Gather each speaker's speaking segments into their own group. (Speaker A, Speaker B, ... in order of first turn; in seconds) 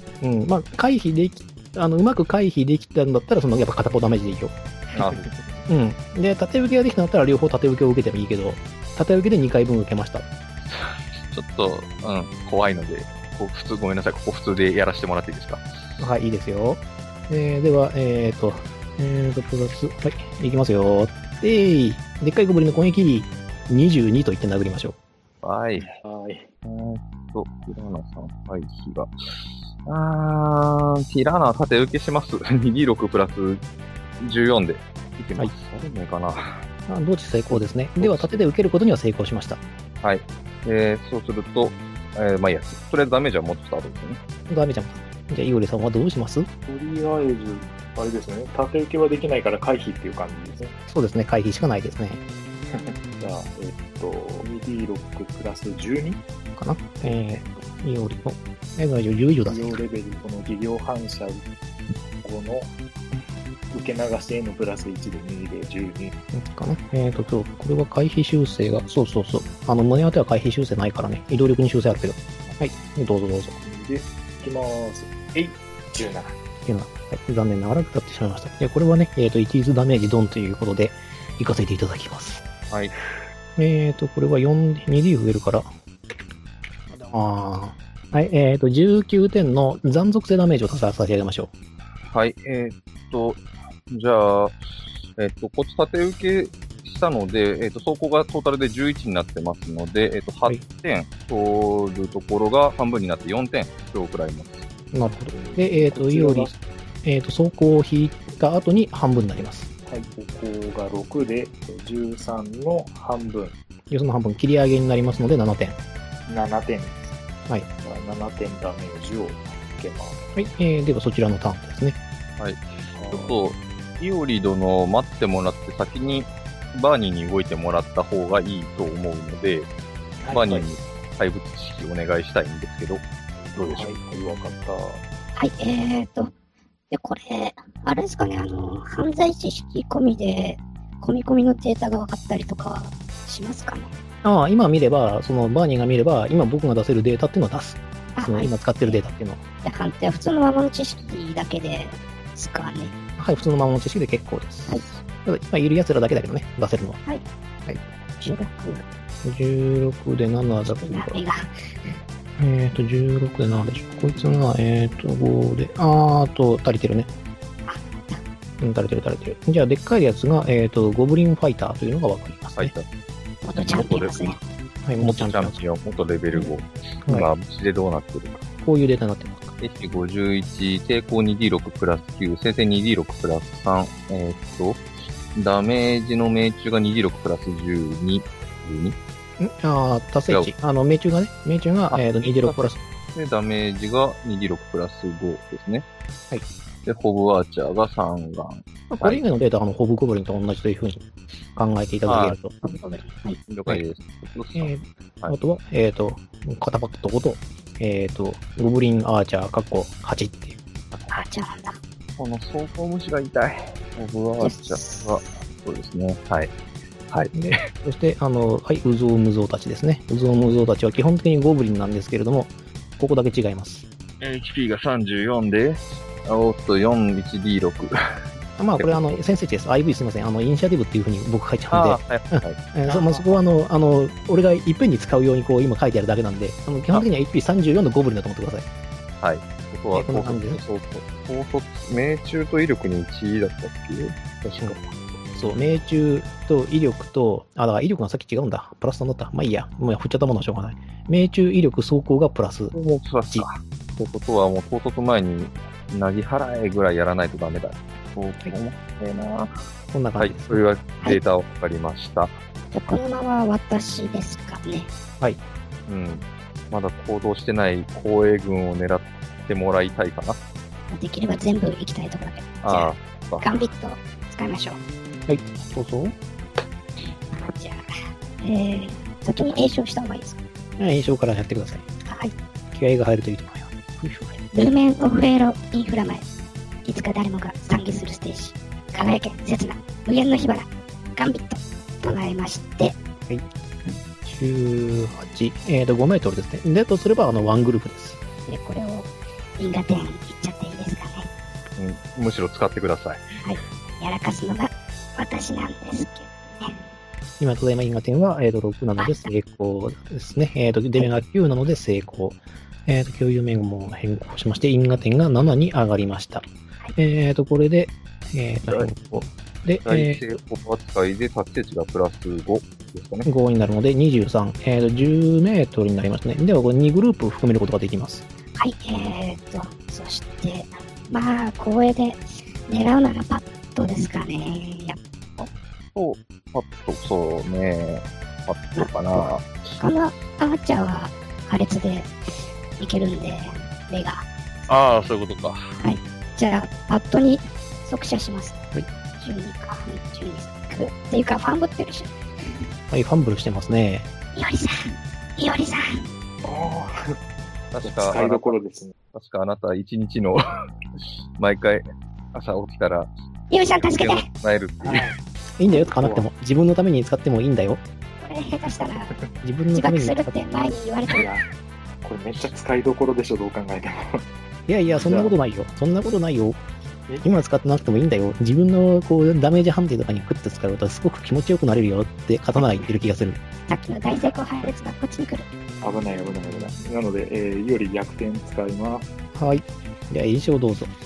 Speaker A: 0.2-4.5, 5.7-10.3, 16.0-25.0, 36.9-39.6, 44.5-46.5, 50.9-52.2, 56.5-59.8, 66.3-73.5, 76.6-82.4, 83.6-85.7, 86.9-91.5, 104.9-106.5, 107.0-109.7, 113.9-115.8, 120.3-122.0, 144.2-149.4, 153.2-157.0, 159.2-161.2, 162.4-167.1, 168.6-172.7, 174.8-175.6, 178.6-179.5, 189.4-192.8, 198.9-202.5, 204.5-211.1, 217.3-223.8, 228.6-238.7, 239.9-240.6, 245.3-252.7, 259.9-260.6, 275.3-276.1, 280.8-281.8, 282.7-284.4, 293.3-298.2, 307.4-316.4, 316.9-320.2, 323.2-328.2, 352.9-354.1, 365.6-367.8, 369.4-370.5, 374.7-376.6, 377.2-383.4, 389.3-390.9
Speaker B: 4.9-5.3, 10.7-15.6, 25.4-25.9, 26.6-29.1, 29.8-33.6, 34.2-36.6, 37.5-38.4, 40.0-44.2, 92.1-94.6, 95.2-104.6, 122.4-129.7, 130.3-133.0, 133.5-133.9, 172.5-172.9, 173.6-174.2, 175.0-178.4, 179.6-184.8, 185.3-189.0, 191.9-192.6, 193.1-195.8, 196.8-199.2, 202.1-202.4, 203.5-205.3, 212.2-216.5, 217.1-217.5, 224.2-227.9, 228.8-229.2, 231.7-232.6, 239.2-245.2, 252.7-259.6, 260.2-262.3, 265.9-270.4, 272.6-273.6, 301.8-303.3, 319.9-323.3, 335.9-339.5, 344.7-345.6, 357.7-358.6, 359.1-360.4, 361.4-361.8, 362.3-363.1, 363.9-365.1
Speaker C: 5.0-5.6, 25.8-26.5, 46.7-50.7, 52.7-56.2, 59.5-61.5, 62.2-62.7, 63.7-66.1, 73.6-76.3, 105.3-106.6, 109.9-113.6, 116.3-117.2, 117.8-120.2, 122.9-123.4, 130.2-130.7, 133.7-135.0, 356.4-357.1, 357.8-358.9, 364.8-365.1, 365.7-366.3, 371.1-371.4, 372.0-374.2, 374.9-375.3, 385.8-389.1
Speaker D: 135.3-136.3, 136.9-143.9, 148.1-149.0, 149.6-152.9, 158.2-158.8, 160.7-161.9, 167.7-168.2, 173.4-174.4, 202.6-203.4, 211.1-211.8, 214.4-215.3, 262.7-264.9, 270.9-274.8, 277.3-277.8, 278.4-280.4, 282.0-282.3, 284.5-286.2, 286.8-293.0, 298.5-301.3, 303.4-306.8, 309.0-309.3, 328.6-335.0, 339.8-344.2, 345.8-348.6, 349.2-352.5, 354.3-356.0, 363.5-364.2, 368.2-369.1, 369.7-371.2, 383.7-385.5